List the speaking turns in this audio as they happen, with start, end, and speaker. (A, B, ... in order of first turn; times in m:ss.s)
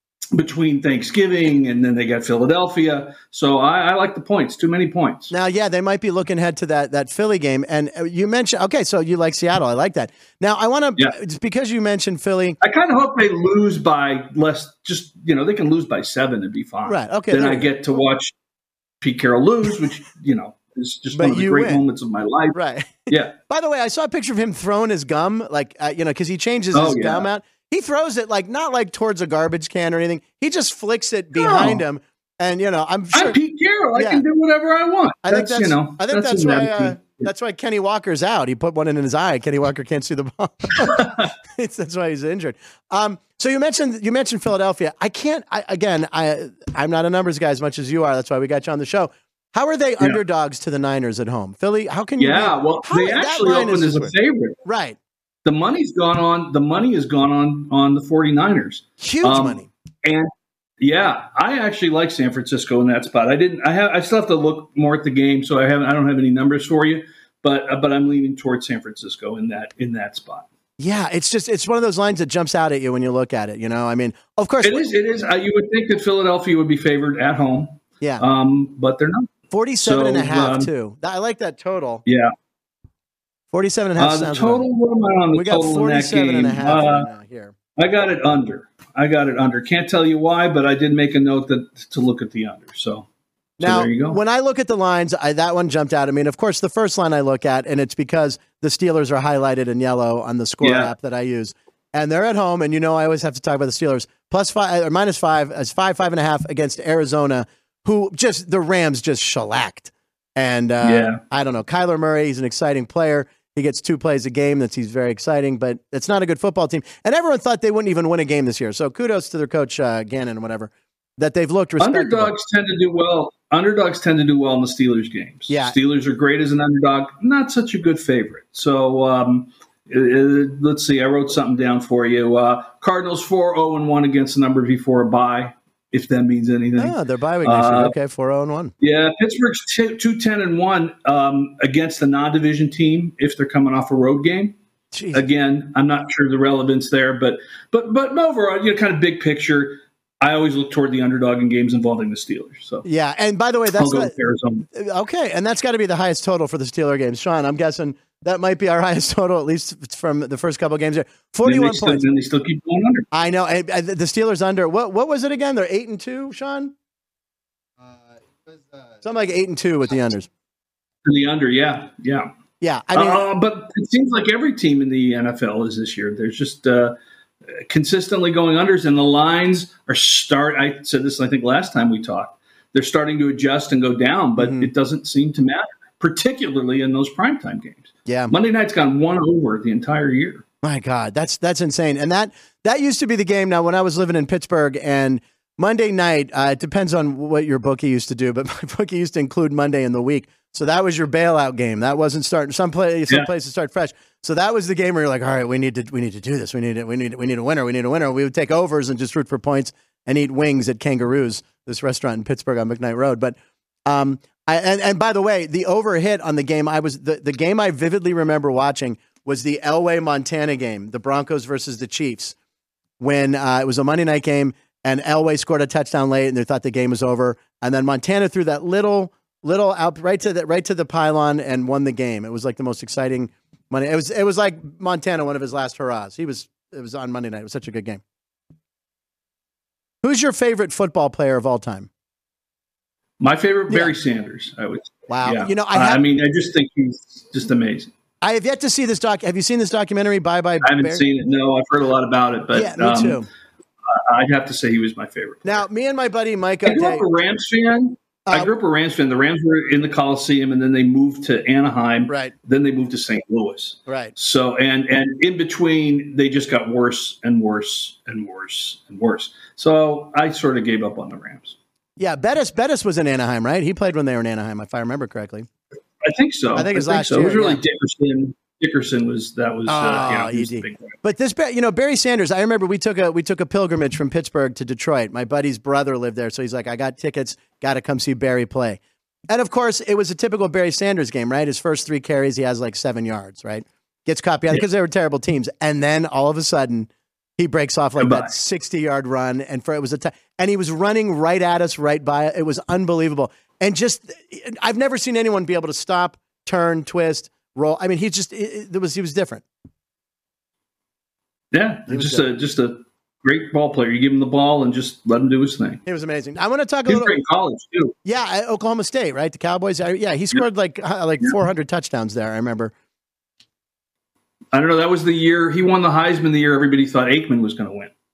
0:00.3-0:05.3 A
0:05.3-0:12.6 B
0:12.6-0:18.3 A
0:16.8-0:17.7 B
0:19.0-0:22.6 A
0:21.1-0:21.8 B
0:22.5-0:33.4 B
0:23.1-0:23.3 A
0:26.7-0:27.3 A
0:31.3-0:31.8 A
0:33.1-0:37.3 A
0:34.0-0:34.2 B
0:35.2-0:54.1 B
0:40.8-0:41.2 A
0:52.2-0:54.6 A
0:54.6-0:55.0 B
0:55.4-1:10.5 A
0:59.0-0:59.7 B
1:10.8-1:14.8 B
1:14.6-1:19.3 A
1:19.5-1:22.0 B
1:19.8-1:20.7 A
1:22.0-1:22.3 A
1:23.5-1:24.6 B
1:24.0-1:27.1 A
1:25.3-1:27.5 B
1:27.8-1:33.1 A
1:33.6-1:34.2 A
1:33.6-2:02.3 B
1:40.6-1:40.9 A
1:50.8-1:51.2 A
2:01.8-2:17.9 A
2:05.5-2:05.8 B
2:16.8-2:18.7 B
2:18.8-2:24.6 A
2:24.9-2:25.2 B
2:25.1-2:32.8 A
2:32.8-2:34.1 B
2:33.7-2:34.6 A
2:34.7-2:42.0 B
2:41.4-2:43.1 A
2:43.1-2:46.7 B
2:49.0-2:50.3 B
2:51.0-2:52.3 A
2:52.6-2:53.2 B
2:52.9-2:57.0 A
2:57.6-3:10.4 A
3:04.4-3:04.7 B
3:08.1-3:08.3 B
3:10.6-3:42.3 B
3:43.0-3:58.0 B
4:00.0-4:01.9 B
4:03.2-4:07.9 A
4:05.1-4:06.0 B
4:08.2-4:11.0 B
4:10.6-4:13.2 A
4:12.5-4:13.3 B
4:13.9-4:15.6 A
4:15.4-4:17.0 B
4:16.6-4:31.6 A
4:23.9-4:24.1 B
4:32.0-4:35.5 B
4:36.0-4:41.0 A
4:36.5-4:37.6 B
4:39.7-5:09.4 B
4:58.0-4:58.3 A
5:11.5-5:15.8 A
5:11.9-5:12.2 B
5:15.8-5:17.1 B
5:16.9-5:17.9 A
5:18.0-5:22.7 B
5:24.5-5:27.9 A